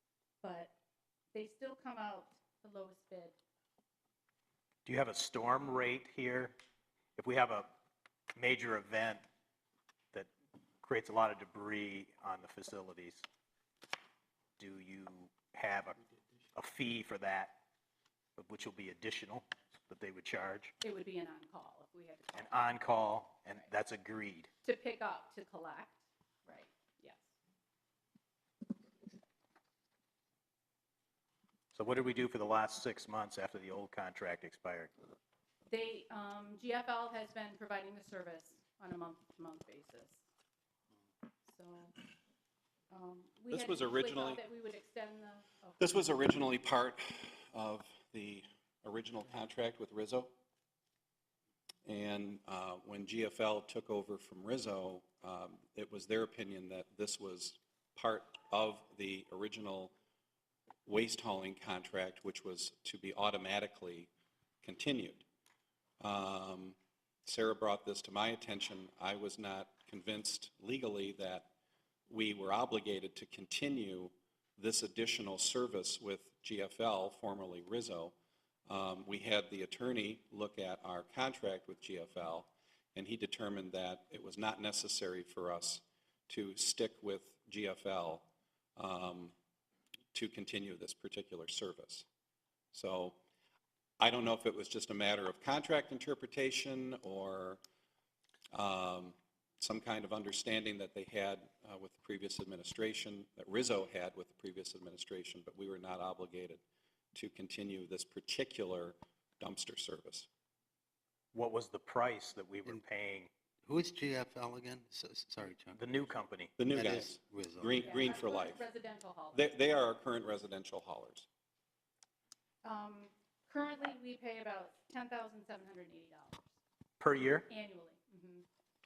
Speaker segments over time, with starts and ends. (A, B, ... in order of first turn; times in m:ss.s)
0:00.4-0:00.7 A
0:01.3-0:03.4 A
0:04.8-0:06.5 B
0:07.2-0:07.7 B
0:08.4-0:09.2 B
0:10.8-0:13.2 B
0:14.6-0:16.0 B
0:16.5-0:17.5 B
0:18.4-0:20.7 B
0:20.8-0:22.7 A
0:22.3-0:24.5 B
0:24.6-0:27.3 A
0:31.7-0:34.9 B
0:35.7-0:40.2 A
0:41.5-0:41.9 A
0:42.9-0:46.1 A
0:43.5-0:44.4 C
0:45.8-0:50.3 C
0:51.8-0:59.9 C
1:00.8-1:04.1 C
1:04.6-1:05.2 C
1:06.0-1:11.5 C
1:12.1-1:18.1 C
1:18.7-1:28.2 C
1:28.8-1:29.3 C
1:30.1-1:32.0 C
1:32.7-1:33.2 C
1:34.0-1:37.6 C
1:38.5-1:46.6 C
1:47.1-1:50.3 C
1:51.3-1:53.3 B
1:53.6-1:55.9 D
1:55.8-1:56.5 B
1:56.6-1:58.6 C
1:56.7-1:58.0 D
1:57.8-1:59.5 A
1:59.3-2:01.3 C
2:02.6-2:06.4 A
2:07.0-2:07.4 B
2:07.5-2:08.4 A